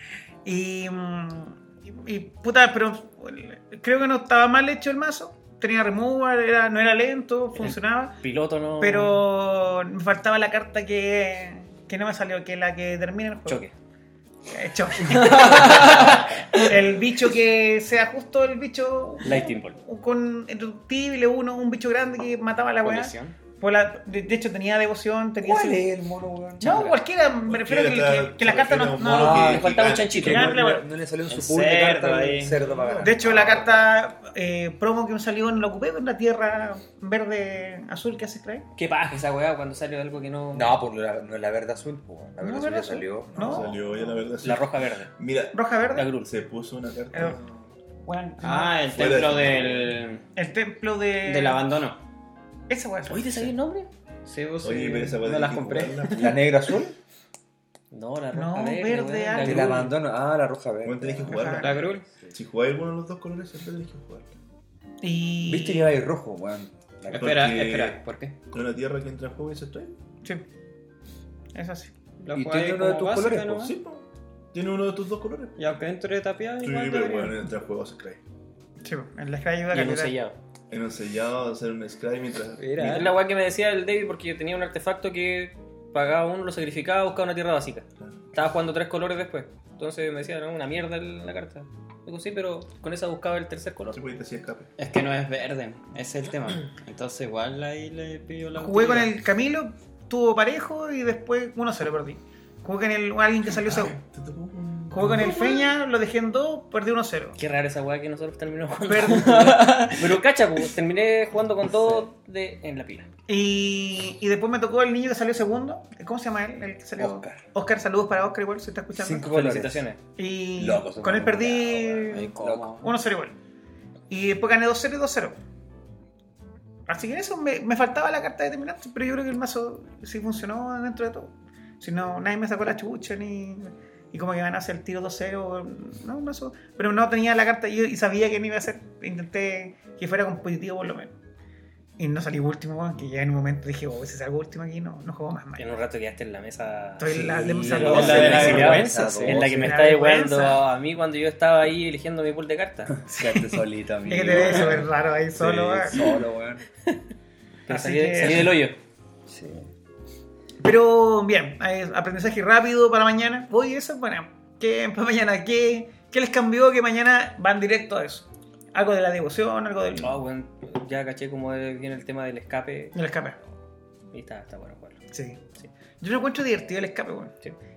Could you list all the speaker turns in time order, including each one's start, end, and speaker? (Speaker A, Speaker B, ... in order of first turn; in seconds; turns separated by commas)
Speaker A: 0.5-8.2, Speaker B: 7.6-9.2, Speaker A: 8.8-13.6, Speaker B: 13.5-13.7, Speaker A: 14.5-25.9, Speaker C: 15.1-16.7, Speaker B: 15.2-16.4, Speaker B: 19.2-19.8, Speaker C: 22.8-23.4, Speaker D: 25.4-26.9, Speaker A: 26.6-29.6, Speaker B: 26.6-27.0, Speaker E: 27.5-30.6, Speaker D: 29.0-33.6, Speaker B: 29.1-30.6, Speaker A: 30.2-30.9, Speaker C: 31.3-32.6, Speaker E: 32.6-33.8, Speaker A: 33.0-38.6, Speaker B: 38.8-40.8, Speaker D: 40.5-43.8, Speaker A: 42.4-44.1, Speaker E: 43.4-45.6, Speaker B: 44.4-45.1, Speaker A: 45.5-46.1, Speaker B: 45.9-46.3, Speaker E: 46.2-47.6, Speaker A: 47.1-47.4, Speaker A: 48.1-48.9, Speaker C: 48.4-50.2, Speaker E: 48.8-50.0, Speaker A: 50.4-51.7, Speaker C: 51.2-52.0, Speaker A: 52.7-53.5, Speaker B: 53.1-53.9, Speaker C: 54.3-56.4, Speaker E: 54.6-56.4, Speaker D: 56.1-57.0, Speaker B: 57.9-60.0, Speaker A: 58.3-59.9, Speaker D: 59.4-62.3, Speaker E: 60.8-64.3, Speaker A: 61.3-61.8, Speaker C: 61.6-62.0, Speaker A: 65.0-66.0, Speaker D: 65.5-67.5, Speaker C: 67.1-68.4, Speaker E: 67.1-70.0, Speaker A: 71.5-71.9, Speaker C: 72.2-73.7, Speaker D: 72.3-73.7, Speaker E: 73.6-75.6, Speaker C: 75.6-77.4, Speaker E: 76.6-78.2, Speaker A: 78.8-80.2, Speaker B: 79.7-80.4, Speaker E: 80.7-83.1, Speaker C: 82.6-83.2, Speaker B: 82.8-94.0, Speaker E: 93.9-94.7, Speaker C: 94.8-99.1, Speaker A: 98.5-104.0, Speaker E: 103.7-105.6, Speaker A: 104.9-107.4, Speaker B: 107.4-113.1, Speaker A: 108.9-109.8, Speaker C: 109.3-110.0, Speaker D: 111.7-112.0, Speaker A: 113.3-119.3, Speaker D: 117.0-117.4, Speaker D: 119.0-119.9, Speaker B: 119.2-120.0, Speaker A: 120.2-123.3, Speaker D: 120.6-122.8, Speaker C: 122.1-122.9, Speaker A: 124.1-125.4, Speaker A: 126.9-141.1, Speaker A: 142.0-145.7, Speaker B: 145.6-153.0, Speaker A: 147.0-148.8, Speaker D: 147.1-149.9, Speaker C: 147.7-149.4, Speaker A: 149.5-150.6, Speaker D: 152.9-156.7, Speaker A: 153.1-156.0, Speaker B: 157.7-158.8, Speaker A: 157.7-158.6, Speaker D: 159.3-159.7, Speaker A: 160.6-170.2, Speaker B: 170.0-173.0, Speaker A: 172.9-173.4, Speaker B: 174.1-175.0, Speaker A: 175.1-175.4, Speaker A: 176.0-177.3